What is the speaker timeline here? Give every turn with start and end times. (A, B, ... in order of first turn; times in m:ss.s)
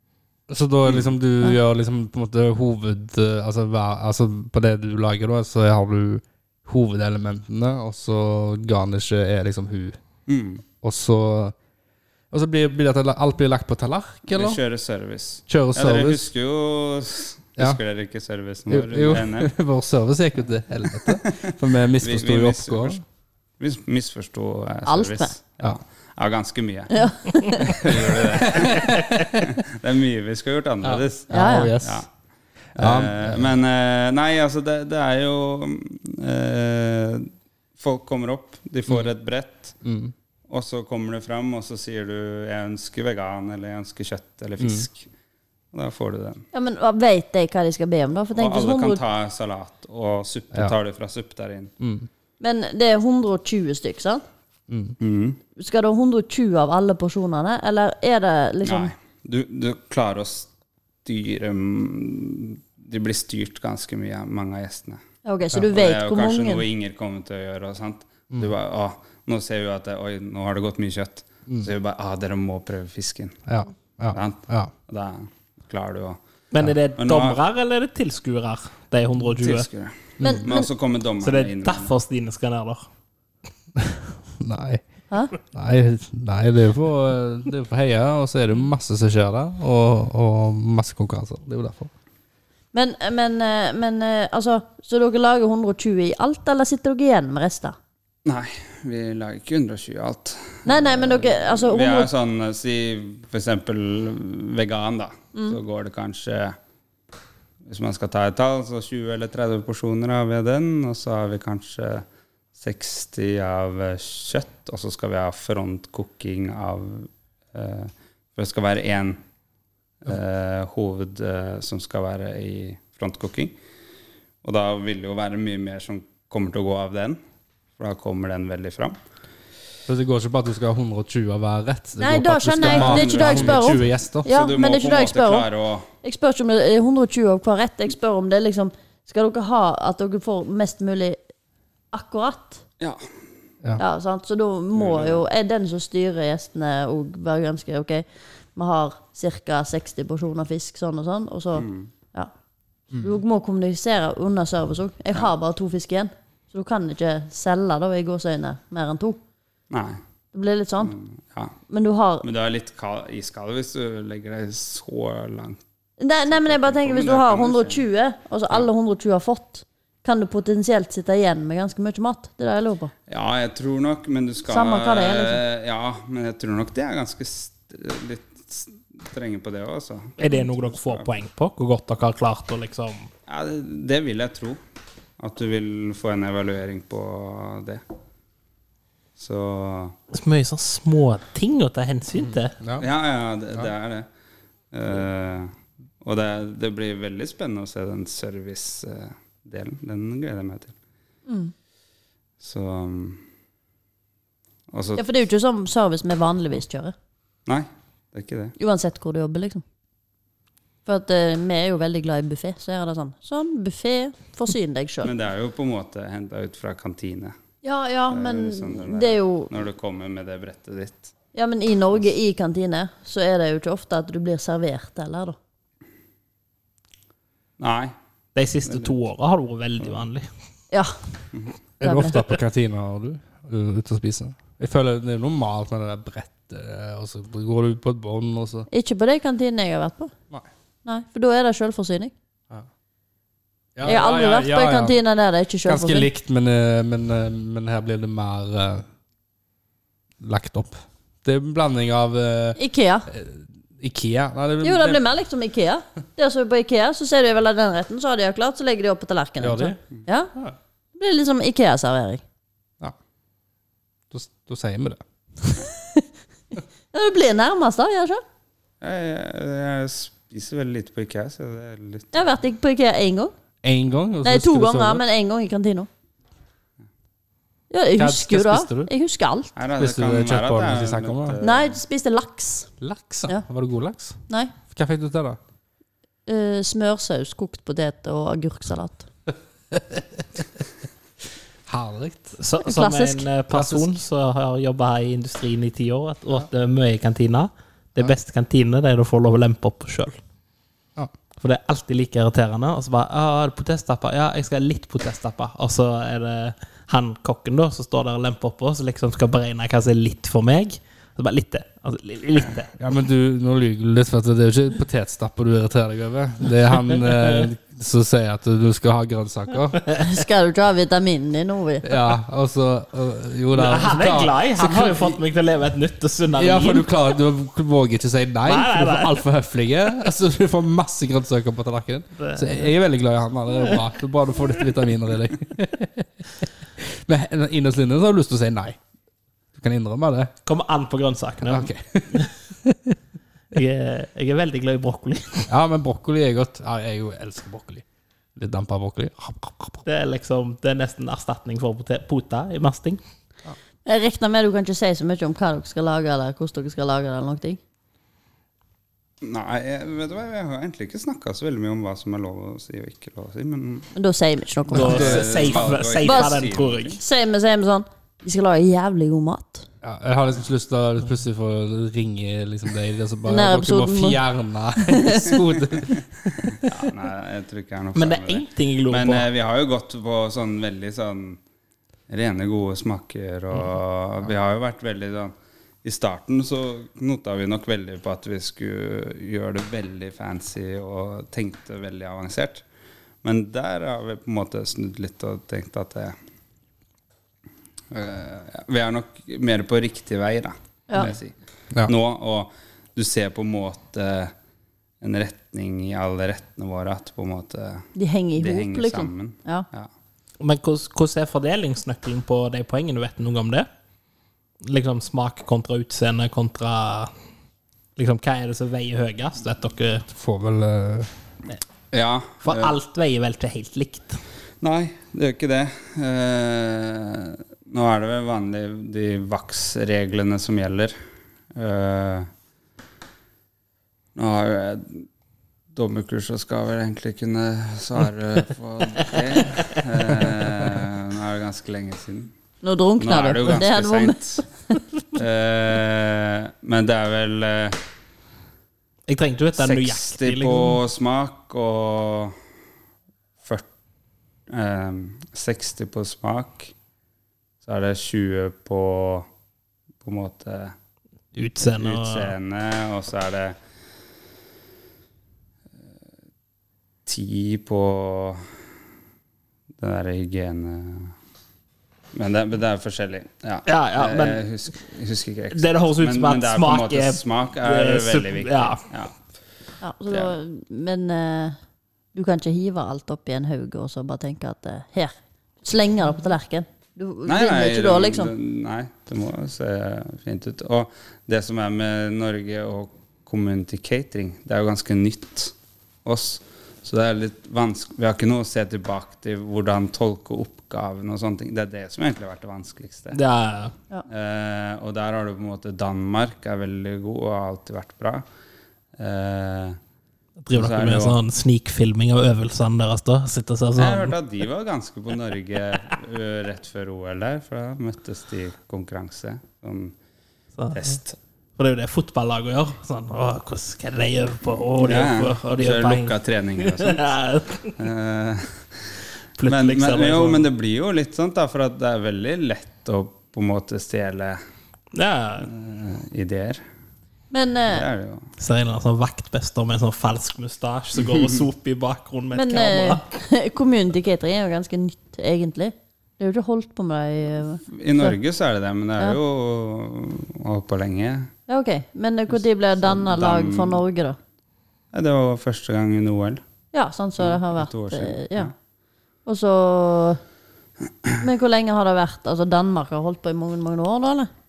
0:00.5-0:10.0 A
0:00.8-0:01.1 B
0:10.3-0:10.6 B
0:10.8-0:11.5 A
0:12.3-0:14.6 A
0:14.3-0:19.5 B
0:15.5-0:16.3 A
0:18.7-0:23.0 A
0:21.0-0:23.0 B
0:23.6-0:32.1 B
0:24.8-0:25.3 C
0:26.9-0:27.8 C
0:27.8-0:29.5 A
0:30.8-0:32.0 A
0:31.3-0:31.7 C
0:32.8-0:33.5 A
0:32.8-0:39.8 B
0:39.8-0:40.1 A
0:40.5-0:45.1 B
0:44.6-0:44.8 A
0:45.7-0:46.4 B
0:46.5-0:49.0 C
0:48.3-0:51.7 B
0:51.8-0:52.1 A
0:52.4-0:54.2 C
0:54.7-0:55.0 A
0:55.0-0:55.4 B
0:55.6-0:58.9 C
0:58.6-1:00.5 B
1:01.0-1:05.0 B
1:05.2-1:06.6 C
1:05.7-1:13.4 B
1:13.5-1:14.7 A
1:14.1-1:16.2 B
1:16.5-1:19.7 D
1:17.0-1:17.4 B
1:19.4-1:21.9 B
1:20.2-1:20.4 A
1:20.2-1:20.7 C
1:21.2-1:22.8 D
1:23.8-1:24.8 A
1:25.4-1:31.9 A
1:32.7-1:37.8 C
1:38.2-1:46.6 B
1:40.6-1:42.1 C
1:47.6-1:59.2 B
2:00.0-2:03.6 B
2:04.4-2:07.2 B
2:07.8-2:09.0 B
2:09.9-2:14.2 A
2:12.0-2:15.5 C
2:12.6-2:15.9 B
2:16.0-2:21.2 C
2:21.9-2:22.6 C
2:23.8-2:32.3 C
2:24.7-2:25.2 B
2:31.5-2:31.9 B
2:33.0-2:39.2 C
2:39.7-2:40.0 B
2:40.3-2:40.9 C
2:40.8-2:41.5 B
2:41.7-2:42.2 C
2:42.2-2:45.6 B
2:46.0-2:52.9 C
2:46.3-2:47.8 B
2:53.1-3:01.1 B
2:54.5-2:55.4 C
3:00.2-3:03.1 D
3:03.3-3:04.6 B
3:05.2-3:07.8 B
3:09.2-3:09.9 B
3:10.1-3:12.6 D
3:12.2-3:12.9 A
3:12.8-3:14.1 B
3:14.7-3:20.7 B
3:21.3-3:21.5 C
3:22.4-3:23.2 B
3:24.7-3:25.0 B
3:25.0-3:26.9 C
3:27.4-3:28.5 B
3:28.6-3:29.6 C
3:30.8-3:35.1 C
3:35.0-3:37.3 B
3:37.6-3:39.5 C
3:38.1-3:41.1 B
3:41.3-3:45.4 C
3:47.6-3:47.9 B
3:48.4-3:50.3 D
3:48.6-3:48.9 B
3:51.8-3:52.2 C
3:51.8-3:58.7 A
3:58.7-4:00.1 C
4:00.8-4:02.1 C
4:03.8-4:05.0 A
4:03.8-4:06.1 C
4:05.6-4:08.8 A
4:10.2-4:15.0 A
4:12.6-4:13.1 C
4:14.6-4:20.3 C
4:19.4-4:19.8 A
4:21.0-4:22.2 C
4:24.1-4:25.0 A
4:25.5-4:26.0 C
4:26.9-4:28.2 C
4:28.8-4:32.1 B
4:32.1-4:33.3 C
4:33.6-4:35.0 A
4:34.2-4:35.9 C
4:37.7-4:39.5 C
4:38.0-4:38.9 A
4:39.6-4:41.8 B
4:39.8-4:41.4 A
4:41.4-4:42.7 C
4:42.8-4:45.4 A
4:44.3-4:44.5 C
4:46.2-4:49.1 C
4:49.8-4:50.0 A
4:51.7-4:52.4 A
4:52.4-5:00.2 D
4:52.6-4:53.3 C
4:53.5-4:53.9 A
5:01.4-5:12.7 D
5:12.8-5:19.8 A
5:19.9-5:21.9 C
5:21.8-5:25.2 A
5:23.5-5:26.9 D
5:26.3-5:38.8 A
5:28.4-5:29.2 D
5:32.2-5:32.7 D
5:39.5-5:40.3 A
5:40.4-5:42.3 D
5:41.5-5:43.0 A
5:43.5-5:45.5 D
5:45.5-5:47.8 A
5:48.4-5:49.8 A
5:49.8-5:53.0 D
5:53.8-5:57.6 C
5:59.2-6:03.9 B
6:03.9-6:05.2 C
6:04.7-6:07.0 D
6:04.7-6:05.6 A
6:04.7-6:07.0 B
6:06.0-6:06.4 C
6:07.0-6:09.6 C
6:09.8-6:16.7 A
6:13.2-6:14.2 C
6:14.9-6:15.3 C
6:16.5-6:21.4 B
6:17.9-6:19.3 D
6:22.1-6:32.6 B
6:33.2-6:36.1 B
6:37.9-6:41.3 B
6:41.8-6:44.3 B
6:45.0-6:49.9 B
6:47.9-6:49.7 C
6:50.4-6:53.7 D
6:54.6-6:57.1 D
6:58.0-7:00.1 D
7:00.1-7:01.1 A
7:01.9-7:02.7 B
7:02.4-7:04.2 D
7:04.6-7:10.9 B
7:11.5-7:12.3 B
7:14.2-7:15.0 B
7:15.7-7:22.3 B
7:22.6-7:24.4 C
7:23.0-7:24.4 B
7:25.1-7:27.8 B
7:29.1-7:30.8 D
7:29.6-7:32.4 B
7:33.4-7:33.7 B
7:34.5-7:36.7 B
7:37.6-7:39.3 B
7:40.0-7:40.7 B
7:41.3-7:42.3 D
7:41.8-7:43.6 B
7:47.0-7:48.4 B
7:49.8-7:51.1 B
7:52.1-7:59.1 B
7:53.6-7:54.4 D
7:55.5-7:58.8 D
7:59.8-8:01.6 C
8:02.1-8:08.3 C
8:07.2-8:23.2 B
8:23.1-8:23.7 D
8:24.1-8:28.2 B
8:29.0-8:29.8 B
8:30.4-8:34.1 D
8:30.5-8:31.2 B
8:33.8-8:39.9 B
8:40.6-8:41.0 D
8:40.7-8:41.2 B
8:41.6-8:47.7 D
8:44.7-8:47.1 B
8:47.8-8:48.7 B
8:49.4-8:50.5 D
8:49.4-8:54.4 B
8:54.9-8:55.5 D
8:55.4-8:56.6 B
8:57.3-8:57.8 C
8:57.7-8:58.3 B
8:58.4-9:03.0 D
9:02.3-9:08.2 C
9:07.7-9:11.3 B
9:11.5-9:14.2 C
9:12.8-9:13.8 B
9:14.9-9:16.4 B
9:16.7-9:18.5 C
9:17.2-9:18.5 B
9:19.2-9:20.2 C
9:21.2-9:24.3 C